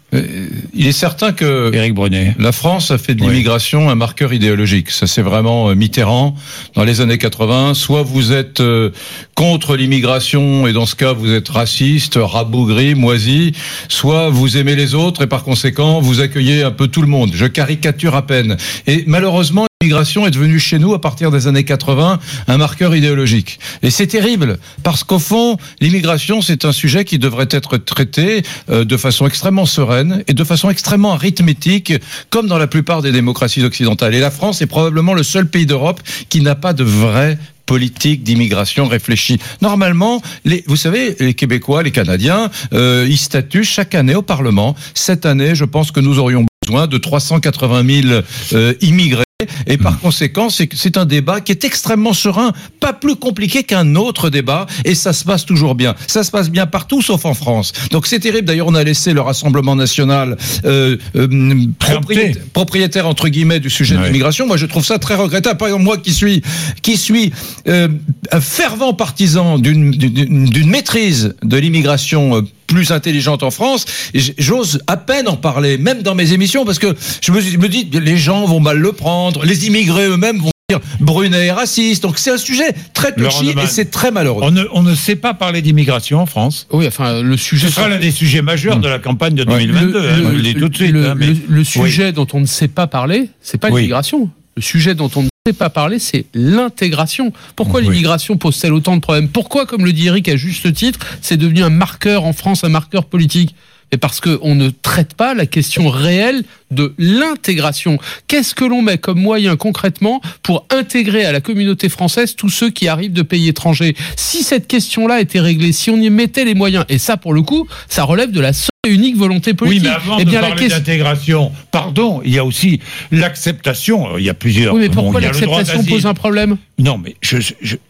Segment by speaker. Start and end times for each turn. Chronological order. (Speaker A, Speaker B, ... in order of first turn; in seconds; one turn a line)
Speaker A: 0.1-1.8
Speaker B: 1.7-2.4
Speaker A: 2.4-84.5
Speaker B: 61.8-62.4
Speaker B: 63.9-64.2
Speaker B: 83.2-83.8
Speaker B: 84.4-86.7
Speaker C: 86.7-87.9
Speaker B: 87.6-92.0
Speaker C: 89.7-120.8
Speaker B: 119.6-126.1
Speaker C: 124.7-126.6
Speaker B: 126.8-127.8